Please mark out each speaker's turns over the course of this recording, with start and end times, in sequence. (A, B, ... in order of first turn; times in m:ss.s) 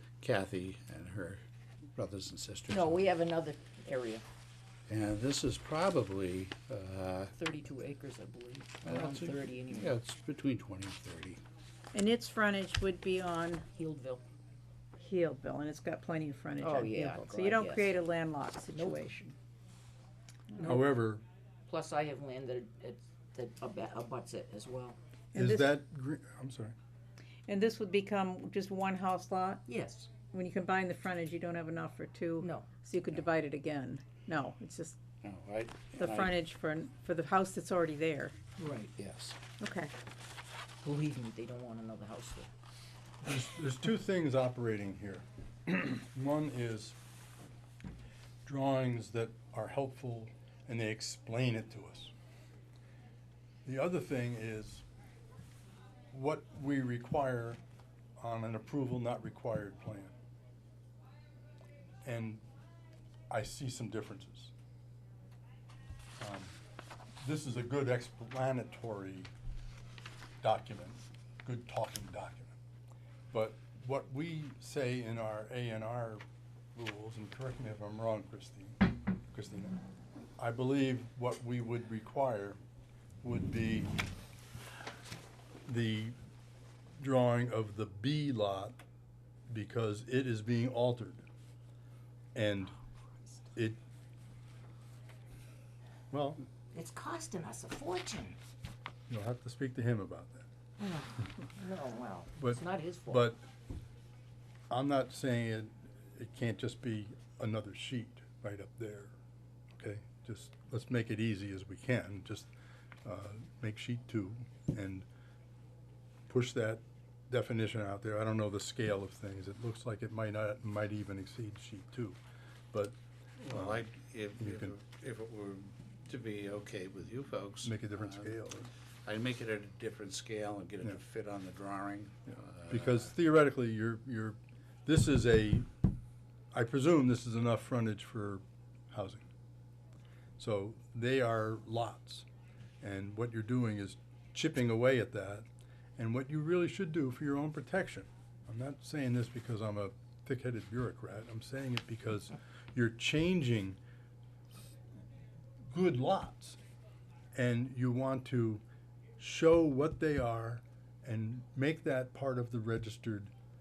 0:00.2-0:01.4 A
0:02.0-0:03.1 A
0:02.7-0:04.2 B
0:04.9-0:07.3 A
0:07.4-0:10.0 B
0:08.8-0:11.4 A
0:11.9-0:13.6 C
0:13.7-0:14.2 B
0:15.0-0:19.3 C
0:16.6-0:18.0 B
0:18.7-0:19.0 B
0:20.6-0:21.2 D
0:21.7-0:25.0 B
0:25.3-0:26.8 D
0:25.4-0:25.7 C
0:27.5-0:29.7 C
0:29.7-0:30.1 B
0:30.2-0:35.0 C
0:32.4-0:32.7 B
0:35.2-0:36.4 A
0:36.0-0:38.4 C
0:38.6-0:38.9 B
0:38.9-0:39.4 A
0:39.6-0:39.9 C
0:40.8-0:42.5 B
0:43.2-0:47.0 D
0:48.4-0:52.1 D
0:53.6-0:54.8 D
0:56.1-0:57.6 D
0:58.2-1:00.1 D
1:02.0-1:02.4 D
1:03.3-1:04.5 D
1:06.2-1:06.6 D
1:07.2-1:09.3 D
1:10.4-1:12.5 D
1:13.3-1:16.2 D
1:16.8-1:19.8 D
1:20.4-1:22.6 D
1:23.2-1:23.9 D
1:25.6-1:26.2 D
1:27.0-1:28.8 D
1:29.5-1:31.2 D
1:32.4-1:32.8 D
1:36.1-1:36.4 D
1:36.7-1:38.4 B
1:39.1-1:40.5 D
1:40.8-1:43.3 B
1:42.4-1:43.4 D
1:44.7-1:49.1 D
1:49.8-1:52.5 D
1:53.0-1:55.1 D
1:56.3-2:02.2 D
2:03.4-2:08.4 A
2:03.5-2:03.8 D
2:04.4-2:04.7 D
2:07.6-2:08.7 D
2:09.0-2:13.1 A
2:12.7-2:15.7 D
2:16.5-2:19.3 D
2:20.4-2:22.3 D
2:22.8-2:33.8 D
2:35.7-2:36.6 D
2:37.4-2:38.6 D
2:39.2-2:43.3 D